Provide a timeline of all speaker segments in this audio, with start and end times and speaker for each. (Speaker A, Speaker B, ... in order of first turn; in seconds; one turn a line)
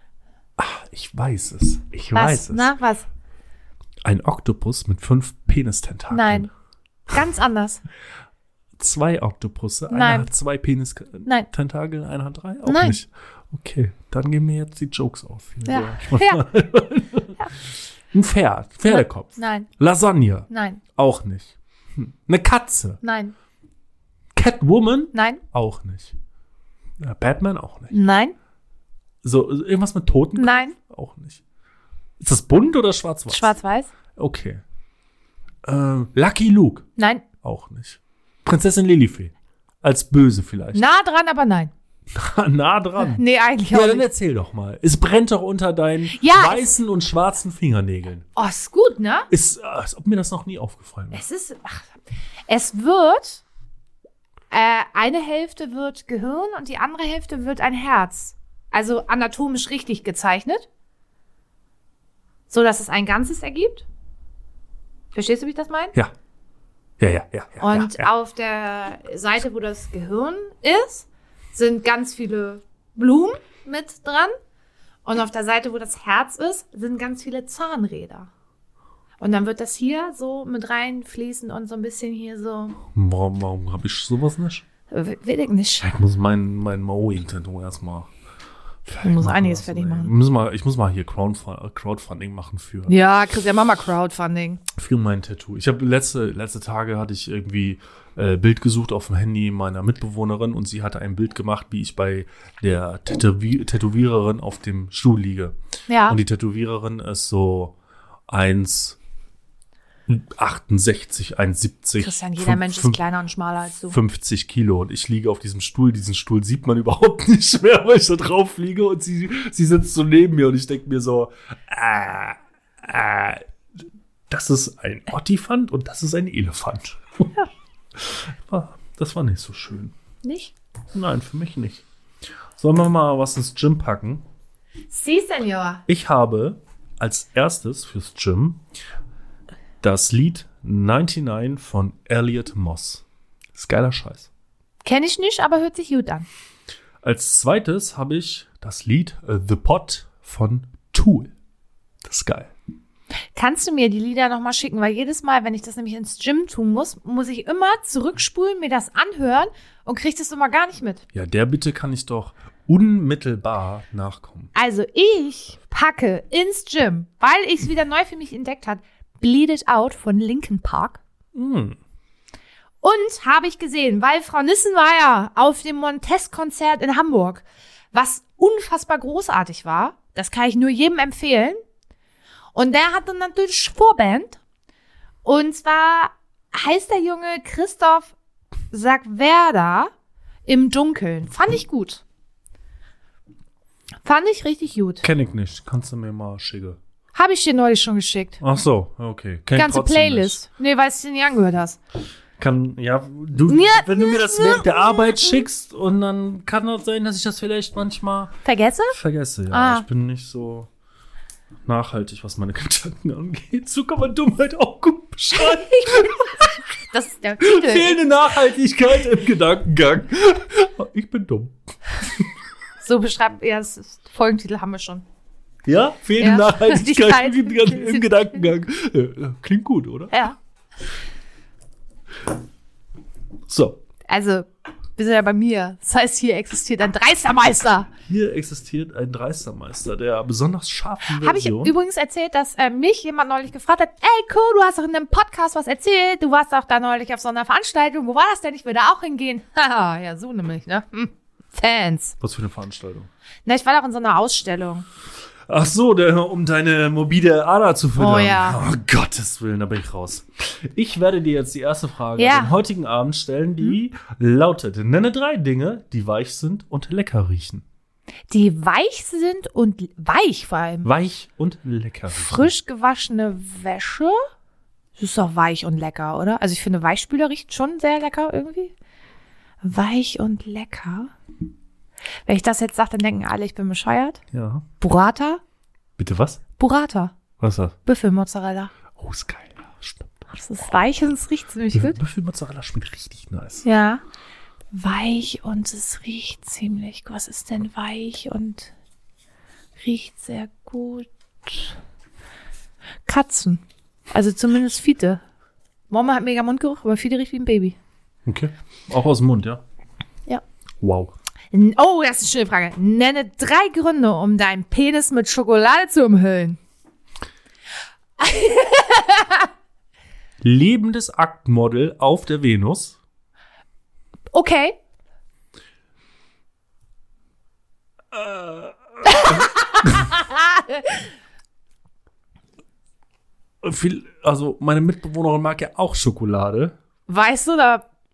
Speaker A: 0.6-2.7
Speaker B: 2.1-3.1
Speaker A: 4.0-6.5
Speaker B: 6.1-6.5
Speaker B: 7.1-7.8
Speaker A: 8.8-23.0
Speaker B: 9.9-10.3
Speaker B: 12.7-13.0
Speaker B: 15.7-16.4
Speaker B: 18.9-19.7
Speaker B: 20.5-20.8
Speaker B: 23.0-23.3
Speaker A: 24.3-26.2
Speaker B: 25.1-25.4
Speaker A: 27.0-27.9
Speaker B: 27.9-28.4
Speaker A: 29.2-31.4
Speaker B: 30.4-30.8
Speaker A: 32.2-33.5
Speaker B: 33.3-33.9
Speaker A: 34.2-34.6
Speaker A: 35.6-36.9
Speaker B: 37.0-37.2
Speaker A: 37.4-40.8
Speaker B: 40.7-41.7
Speaker A: 42.1-48.2
Speaker B: 43.0-44.1
Speaker B: 46.1-46.7
Speaker B: 48.4-49.3
Speaker A: 49.3-51.2
Speaker B: 51.1-51.9
Speaker B: 52.5-53.4
Speaker B: 54.5-60.7
Speaker B: 62.5-63.9
Speaker B: 65.1-66.0
Speaker A: 67.0-68.1
Speaker B: 67.6-74.3
Speaker B: 75.0-78.3
Speaker B: 79.2-82.8
Speaker A: 82.9-84.7
Speaker B: 84.9-85.9
Speaker A: 85.8-88.1
Speaker A: 88.9-93.0
Speaker B: 89.0-90.1
Speaker B: 92.9-94.6
Speaker A: 94.7-105.6
Speaker B: 105.9-106.2
Speaker A: 106.1-107.8
Speaker A: 108.3-109.0
Speaker A: 110.1-113.0
Speaker B: 112.0-114.0
Speaker A: 113.9-123.5
Speaker A: 124.3-127.3
Speaker A: 128.0-129.9
Speaker B: 130.2-130.6
Speaker A: 130.9-131.8
Speaker A: 132.6-134.2
Speaker B: 134.9-135.8
Speaker A: 135.9-138.6
Speaker A: 139.8-144.3
Speaker B: 144.8-146.3
Speaker A: 147.0-151.3
Speaker A: 152.0-152.5
Speaker B: 153.3-161.0
Speaker A: 161.1-164.5
Speaker B: 164.6-171.0
Speaker A: 171.3-171.8
Speaker B: 172.8-181.6
Speaker B: 182.5-184.4
Speaker B: 185.2-188.2
Speaker B: 188.7-189.9
Speaker B: 190.5-192.0
Speaker B: 194.1-195.1
Speaker A: 195.0-196.8
Speaker B: 197.1-198.4
Speaker A: 198.4-200.4
Speaker B: 199.6-201.8
Speaker A: 202.4-208.4
Speaker B: 203.5-205.4
Speaker B: 208.4-209.0
Speaker A: 208.9-210.7
Speaker B: 209.5-209.9
Speaker A: 211.7-216.5
Speaker B: 215.4-218.0
Speaker A: 217.4-222.3
Speaker B: 222.8-225.1
Speaker A: 225.7-230.1
Speaker B: 226.2-228.4
Speaker B: 230.1-230.4
Speaker A: 233.5-233.8
Speaker B: 234.1-237.9
Speaker A: 238.1-241.8
Speaker B: 241.1-252.2
Speaker A: 252.2-253.1
Speaker B: 253.5-254.9
Speaker A: 255.5-267.6
Speaker B: 258.0-258.6
Speaker B: 262.2-262.6
Speaker B: 268.3-270.9
Speaker A: 270.8-272.5
Speaker B: 272.1-274.2
Speaker B: 275.0-278.7
Speaker B: 279.6-281.1
Speaker B: 282.3-284.2
Speaker A: 284.3-284.6
Speaker B: 284.8-285.4
Speaker A: 286.0-286.4
Speaker B: 286.6-287.1
Speaker A: 287.4-287.8
Speaker B: 287.9-288.7
Speaker A: 289.0-290.2
Speaker B: 290.3-292.0
Speaker A: 291.7-293.6
Speaker B: 293.6-294.0
Speaker B: 294.7-298.7
Speaker B: 299.8-301.8
Speaker B: 303.1-305.2
Speaker B: 305.9-307.8
Speaker A: 308.3-309.6
Speaker A: 310.8-311.1
Speaker B: 311.5-316.6
Speaker B: 318.2-319.5
Speaker A: 320.4-323.0
Speaker B: 324.3-324.8
Speaker A: 328.1-330.1
Speaker B: 329.1-331.0
Speaker A: 333.6-336.8
Speaker B: 337.1-337.9